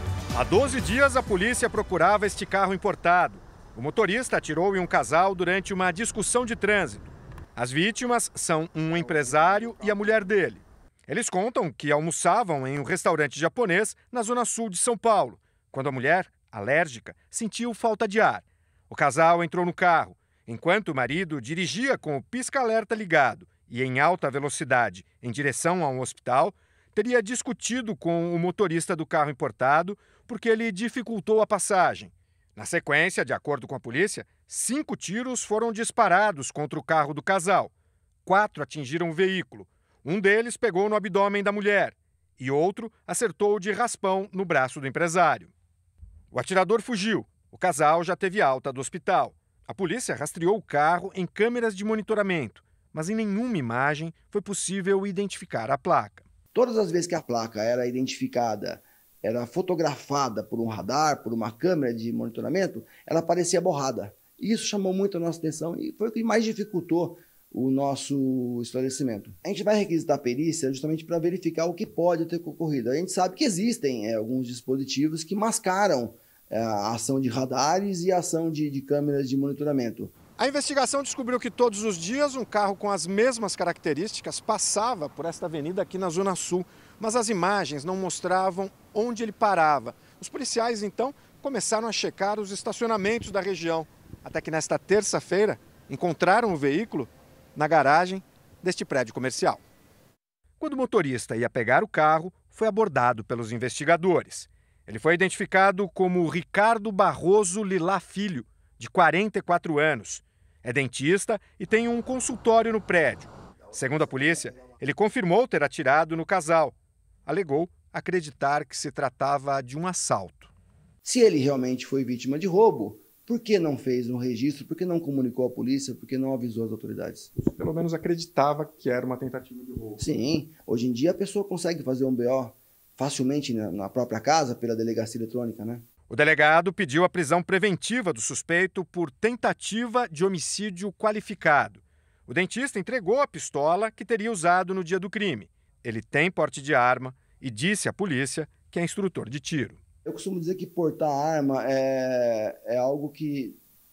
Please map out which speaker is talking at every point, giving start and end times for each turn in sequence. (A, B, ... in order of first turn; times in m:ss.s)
0:00.3-0:37.7 A
0:09.0-0:10.3 B
0:38.3-0:45.5 A
0:46.3-0:56.3 A
0:56.5-1:20.2 B
1:20.4-1:39.6 A
1:40.6-1:56.8 A
1:54.0-1:54.6 B
1:57.3-2:00.5 A
2:01.0-2:07.3 B
2:07.4-2:10.0 A
2:10.0-2:15.8 B
2:16.1-2:29.8 A
2:30.0-2:33.6 B